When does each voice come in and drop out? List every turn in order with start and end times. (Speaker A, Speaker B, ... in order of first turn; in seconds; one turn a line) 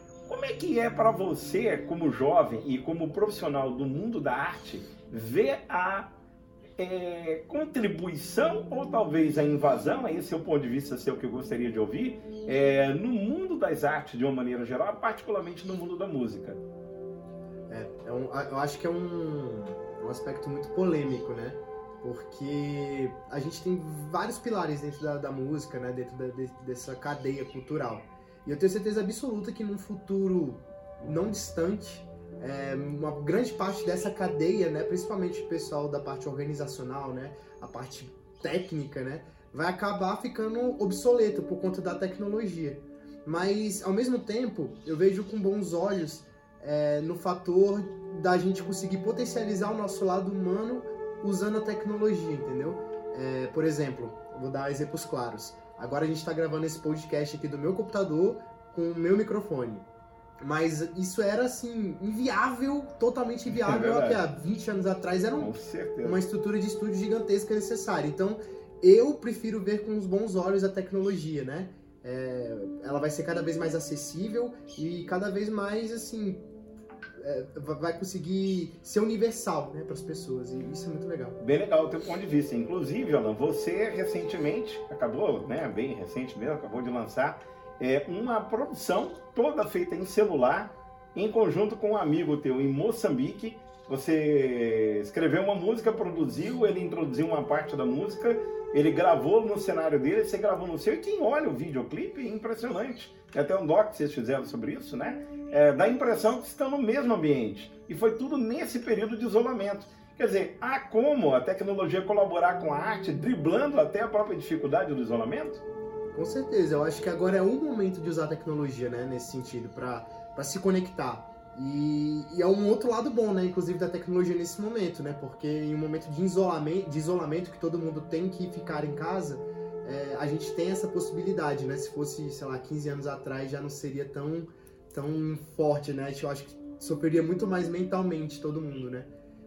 Speaker A: 0.2-6.1
Speaker A: 6.8-16.6
Speaker B: 17.7-59.9
Speaker B: 60.4-76.4
Speaker A: 63.5-64.2
Speaker A: 65.3-66.2
Speaker B: 77.2-81.4
Speaker A: 81.4-115.6
Speaker B: 116.1-139.1